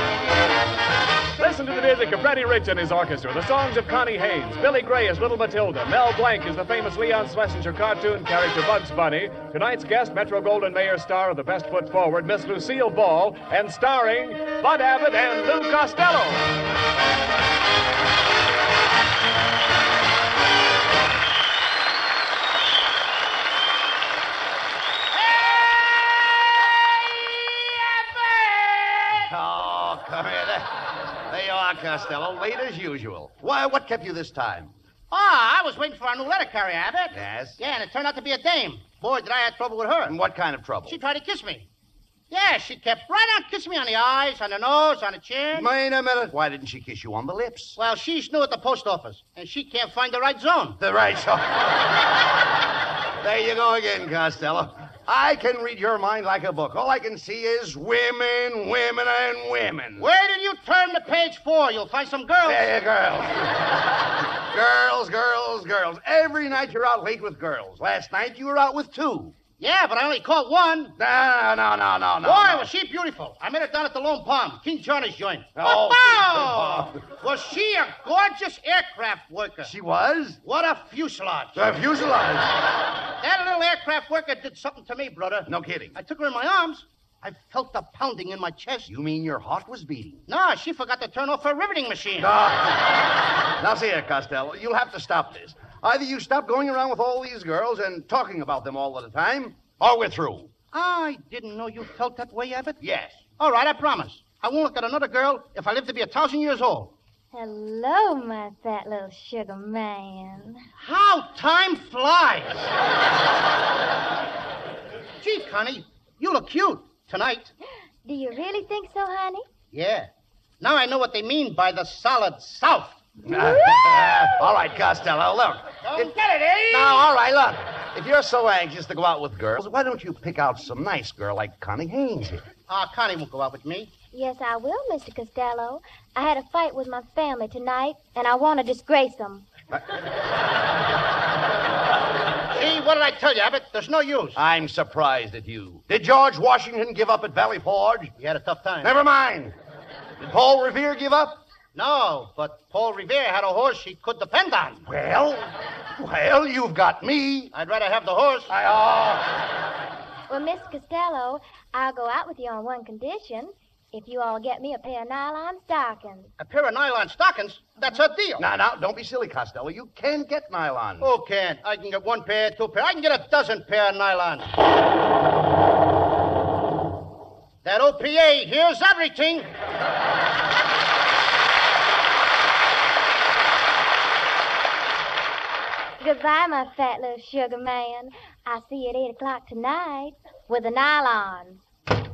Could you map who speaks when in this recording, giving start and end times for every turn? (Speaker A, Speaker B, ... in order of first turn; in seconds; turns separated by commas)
Speaker A: 1.4-16.5, Speaker B: 28.2-28.7, Speaker C: 29.1-30.7, Speaker C: 31.3-34.7, Speaker B: 35.1-40.1, Speaker C: 37.1-37.6, Speaker C: 40.1-41.0, Speaker B: 40.9-41.7, Speaker B: 42.3-45.7, Speaker C: 45.5-47.8, Speaker B: 47.8-50.8, Speaker C: 50.8-51.7, Speaker C: 53.2-60.1, Speaker B: 60.0-62.7, Speaker C: 62.5-63.8, Speaker C: 64.5-69.3, Speaker B: 69.6-70.9, Speaker C: 71.0-72.7, Speaker B: 72.2-79.7, Speaker C: 75.6-77.0, Speaker C: 79.6-80.4, Speaker B: 80.4-81.7, Speaker C: 81.5-82.5, Speaker B: 83.2-88.9, Speaker C: 85.5-86.0, Speaker C: 88.9-90.2, Speaker B: 90.3-92.3, Speaker C: 92.2-92.8, Speaker C: 93.6-100.5, Speaker B: 100.7-102.8, Speaker C: 102.8-103.2, Speaker B: 103.4-106.9, Speaker D: 107.3-110.7, Speaker B: 110.8-112.7, Speaker B: 115.2-117.5, Speaker D: 118.0-119.5, Speaker B: 119.7-120.1, Speaker B: 120.6-123.0, Speaker C: 123.2-126.1, Speaker D: 123.3-124.2, Speaker B: 125.8-127.1, Speaker C: 126.7-132.4, Speaker B: 132.7-133.9, Speaker D: 134.1-139.5, Speaker B: 142.5-144.4, Speaker C: 144.3-148.1, Speaker B: 148.2-148.9, Speaker C: 148.8-149.6, Speaker C: 150.2-151.4, Speaker B: 151.7-154.8, Speaker C: 154.9-157.5, Speaker B: 157.5-158.5, Speaker C: 158.5-159.3, Speaker D: 160.3-166.3, Speaker B: 166.4-168.4, Speaker C: 168.4-171.1, Speaker B: 171.0-174.5, Speaker B: 177.6-179.5, Speaker D: 186.0-191.6